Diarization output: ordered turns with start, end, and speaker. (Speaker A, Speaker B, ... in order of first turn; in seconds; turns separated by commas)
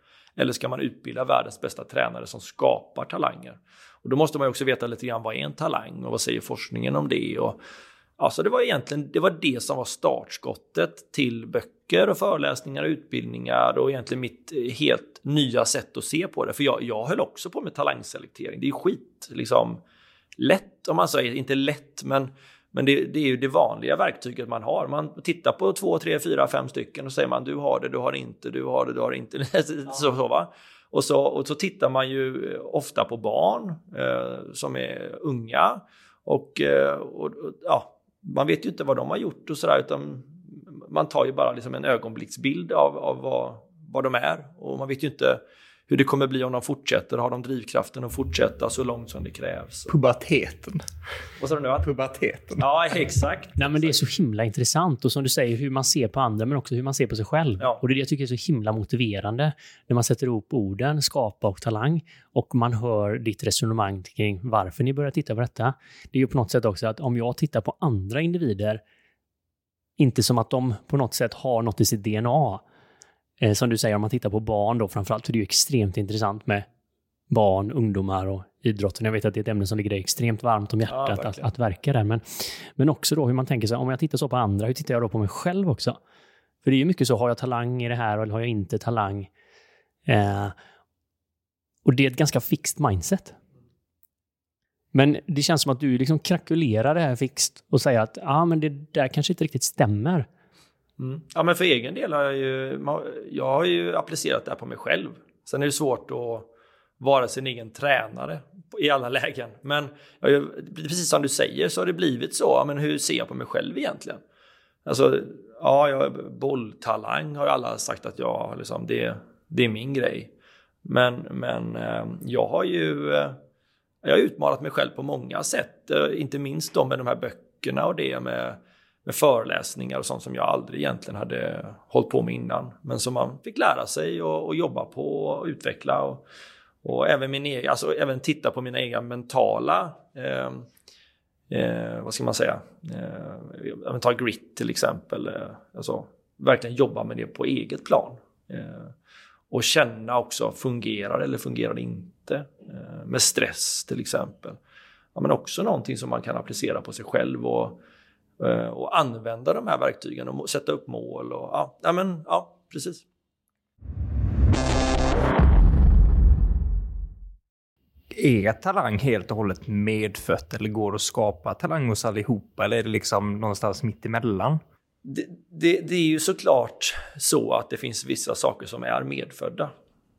Speaker A: 0.4-7.6, Speaker A: 8.2-19.8, Speaker A: 20.4-49.9, Speaker B: 49.9-50.8, Speaker A: 51.4-51.9, Speaker B: 51.8-52.6, Speaker A: 52.6-54.0, Speaker C: 53.6-68.8, Speaker C: 70.0-72.6, Speaker C: 73.4-76.7, Speaker C: 77.3-86.0, Speaker A: 80.9-81.5, Speaker C: 86.6-89.3, Speaker C: 90.1-90.5, Speaker C: 91.8-93.4, Speaker C: 94.9-100.3, Speaker A: 101.0-106.5, Speaker A: 107.0-114.2, Speaker A: 114.8-120.3, Speaker A: 120.8-123.4, Speaker A: 124.0-136.2, Speaker A: 136.8-140.7, Speaker A: 141.5-148.9, Speaker A: 149.5-154.6, Speaker A: 155.1-157.8, Speaker A: 158.4-163.0, Speaker B: 168.1-174.6, Speaker A: 175.1-179.7